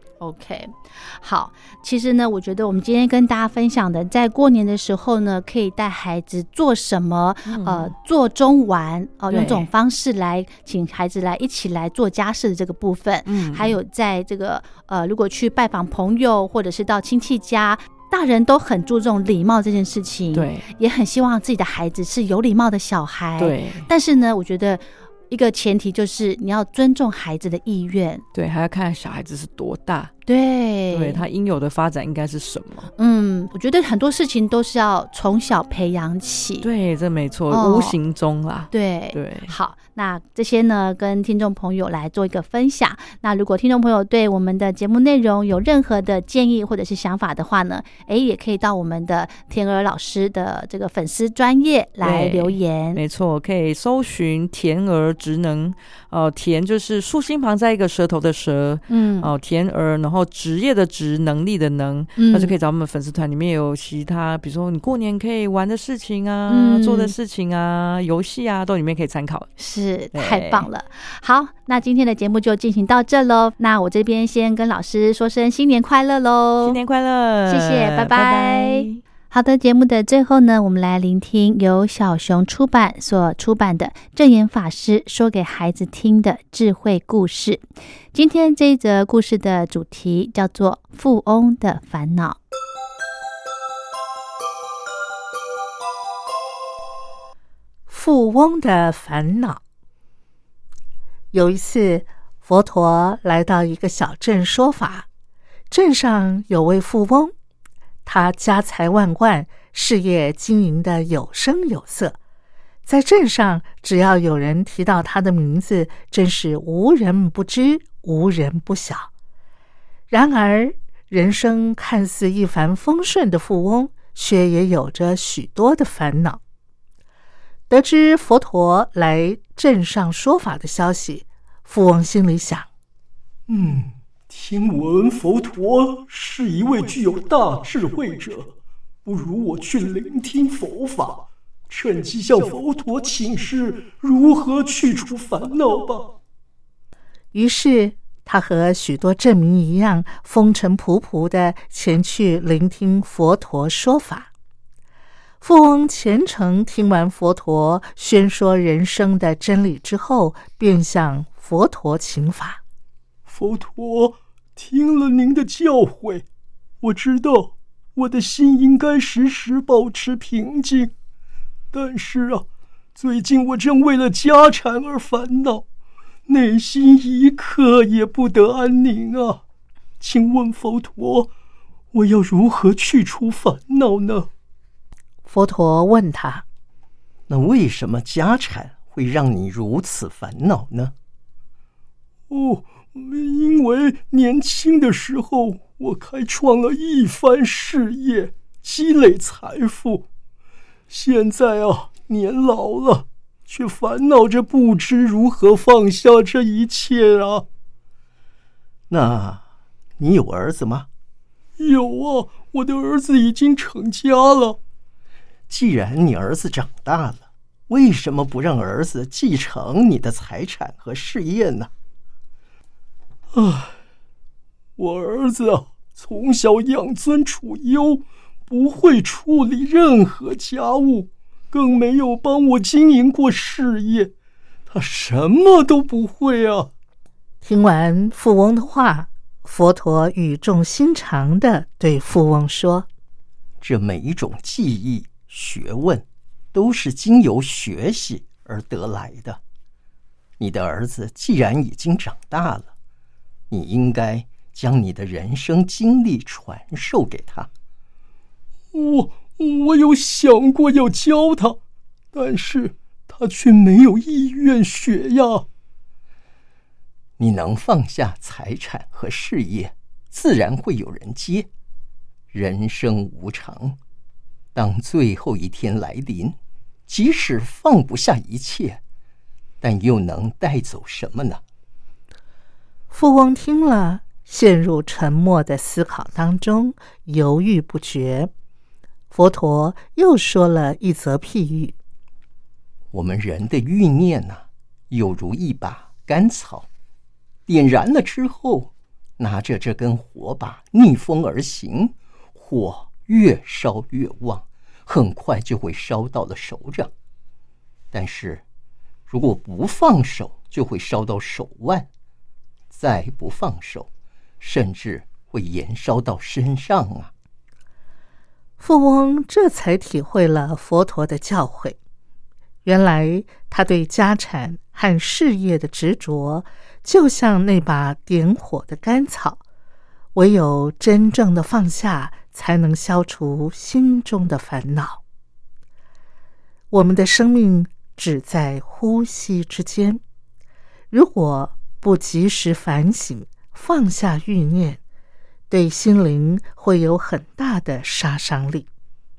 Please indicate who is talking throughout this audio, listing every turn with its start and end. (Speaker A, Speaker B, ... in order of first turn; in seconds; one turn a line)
Speaker A: 0.2-28.2
Speaker B: 7.5-7.9
Speaker B: 9.3-9.7
Speaker B: 13.3-13.8
Speaker B: 20.3-20.7
Speaker B: 23.4-23.9
Speaker B: 28.3-30.1
Speaker A: 30.3-31.2
Speaker B: 30.9-32.9
Speaker A: 33.0-36.7
Speaker B: 36.6-39.5
Speaker A: 37.5-38.0
Speaker A: 38.7-53.0
Speaker B: 52.0-69.5
Speaker A: 58.9-59.3
Speaker A: 62.2-62.5
Speaker A: 66.5-67.1
Speaker A: 69.6-76.8
Speaker B: 70.1-70.7
Speaker B: 76.6-79.0
Speaker A: 77.5-92.4
Speaker C: 97.9-99.6
Speaker C: 101.3-105.1
Speaker C: 105.7-107.3
Speaker C: 108.0-112.2
Speaker C: 112.8-119.1
Speaker C: 120.1-126.4
Speaker C: 127.7-132.7
Speaker D: 133.5-138.5
Speaker D: 139.1-146.1
Speaker C: 147.3-154.3
Speaker C: 155.4-162.6
Speaker D: 163.3-166.2
Speaker D: 166.8-170.9
Speaker D: 171.7-175.6
Speaker D: 176.3-179.4
Speaker D: 180.0-181.3
Speaker D: 181.9-184.3
Speaker C: 185.3-186.4
Speaker E: 187.3-190.9
Speaker D: 192.3-200.1
Speaker D: 200.9-207.5
Speaker E: 208.9-209.4
Speaker E: 210.0-210.9
Speaker D: 211.6-214.6
Speaker E: 215.5-221.7
Speaker D: 223.3-223.7
Speaker D: 224.8-234.1
Speaker D: 234.7-236.7
Speaker C: 237.4-242.9
Speaker E: 243.6-249.4
Speaker E: 250.4-252.7
Speaker E: 253.5-257.5
Speaker D: 258.7-261.6
Speaker D: 262.1-265.5
Speaker E: 267.2-271.5
Speaker E: 272.3-273.8
Speaker E: 274.6-276.4
Speaker E: 276.9-278.8
Speaker E: 279.6-281.4
Speaker C: 282.9-288.3
Speaker C: 289.1-291.8
Speaker E: 292.9-296.7
Speaker E: 297.5-306.9
Speaker E: 307.9-308.4
Speaker E: 309.1-311.9
Speaker E: 312.7-313.9
Speaker E: 314.4-317.1
Speaker C: 318.6-321.8
Speaker C: 322.6-329.4
Speaker C: 330.1-335.0
Speaker C: 336.7-340.0
Speaker C: 340.9-344.8
Speaker C: 345.5-348.7